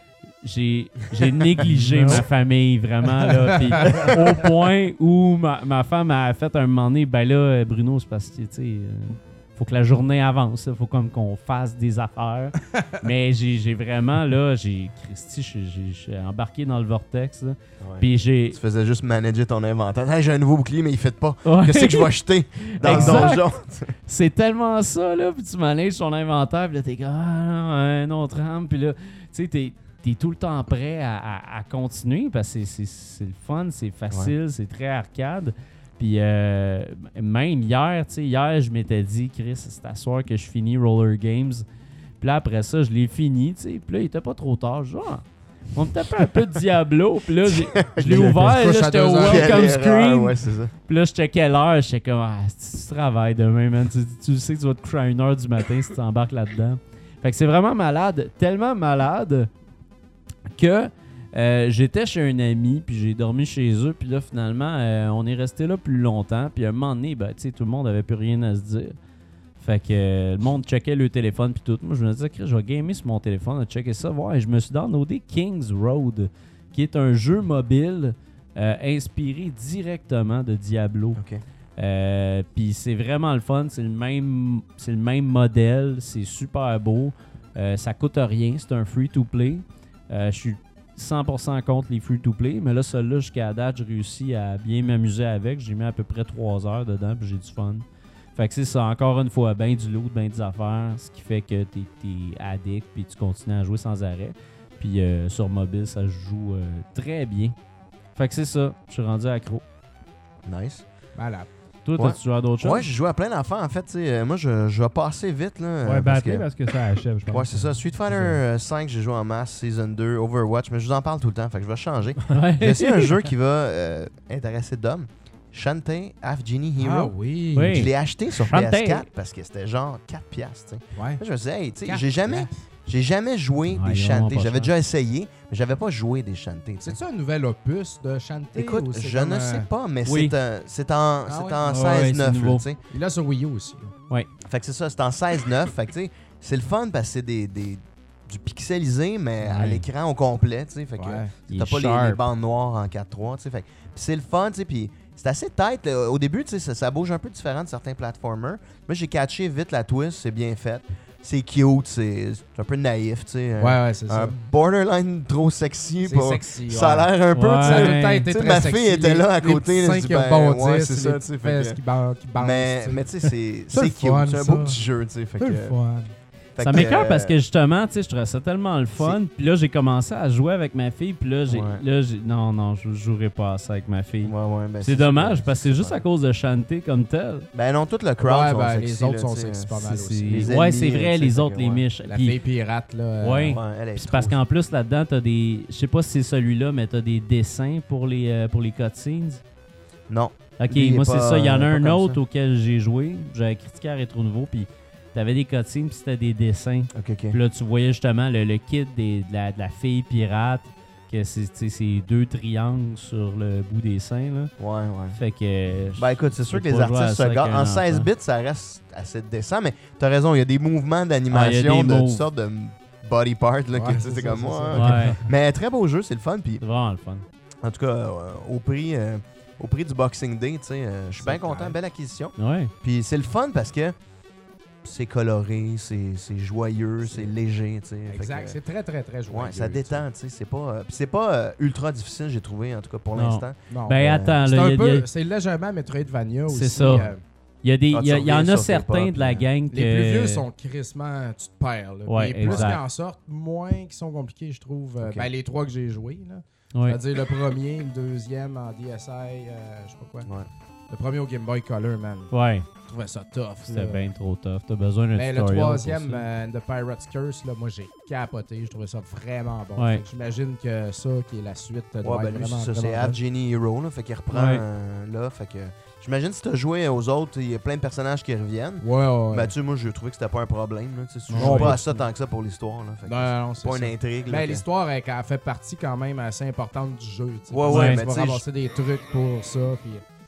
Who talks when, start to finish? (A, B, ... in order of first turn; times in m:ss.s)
0:00.4-0:18.6 A
0:01.7-0:02.2 B
0:17.8-0:23.9 C
0:21.4-0:41.6 A
0:42.2-0:59.5 A
0:47.5-0:48.4 C
0:48.0-0:49.6 D
0:49.2-0:50.7 C
1:00.5-1:08.9 A
1:09.6-1:21.2 A
1:21.1-1:21.4 C
1:21.8-1:37.8 A
1:38.3-1:47.5 A
1:48.2-1:49.6 A
1:50.4-1:50.8 C
1:51.2-1:51.5 D
1:51.8-1:52.9 A
1:52.0-1:56.5 C
1:55.8-1:58.4 B
1:57.3-2:17.0 C
2:02.3-2:03.2 A
2:06.8-2:07.8 D
2:07.5-2:09.0 A
2:11.0-2:11.2 D
2:11.8-2:12.5 D
2:13.7-2:14.7 A
2:16.8-2:19.7 D
2:18.5-2:22.8 C
2:20.0-2:20.3 A
2:21.2-2:21.6 D
2:21.6-2:22.6 A
2:22.9-2:23.9 D
2:24.4-2:51.8 C
2:29.4-2:29.8 A
2:31.0-2:31.3 D
2:31.5-2:32.2 A
2:43.6-2:44.4 D
2:46.0-2:53.1 D
2:47.3-2:48.2 A
2:52.4-2:55.8 C
2:53.7-2:54.8 D
2:55.4-2:56.1 D
2:56.6-2:57.4 C
2:56.6-3:07.5 A
3:01.5-3:01.8 C
3:04.2-3:06.0 C
3:07.5-3:11.8 C
3:08.2-3:10.5 D
3:09.8-3:12.4 A
3:12.0-3:13.5 D
3:13.2-3:19.4 A
3:13.4-3:14.4 C
3:20.1-3:22.2 C
3:20.6-3:34.5 A
3:26.9-3:27.4 C
3:34.6-3:35.2 C
3:35.1-3:38.1 A
3:36.0-3:46.6 C
3:41.3-3:42.2 A
3:43.7-3:45.2 D
3:44.7-3:45.2 A
3:44.9-3:45.2 B
3:46.6-3:47.2 A
3:47.6-3:53.9 C
3:51.2-3:51.8 D
3:52.4-3:52.7 A
3:54.8-3:58.6 C
3:57.0-3:57.3 D
3:58.1-4:00.0 D
3:59.3-4:04.4 C
4:03.1-4:05.0 A
4:03.7-4:07.2 D
4:06.5-4:07.1 A
4:07.6-4:10.4 A
4:07.9-4:09.5 C
4:09.7-4:20.3 D
4:12.1-4:12.8 A
4:12.4-4:12.8 C
4:15.0-4:15.3 C
4:16.7-4:17.0 A
4:20.2-4:20.5 C
4:20.9-4:24.0 D
4:22.3-4:22.7 A
4:23.6-4:26.2 A
4:25.1-4:33.2 D
4:29.8-4:30.0 A
4:32.0-4:44.6 C
4:34.3-4:34.6 A
4:38.8-4:39.5 D
4:41.3-4:41.8 B
4:41.3-4:42.0 D
4:43.0-4:50.0 D
4:47.5-4:48.4 C
4:47.7-4:48.0 A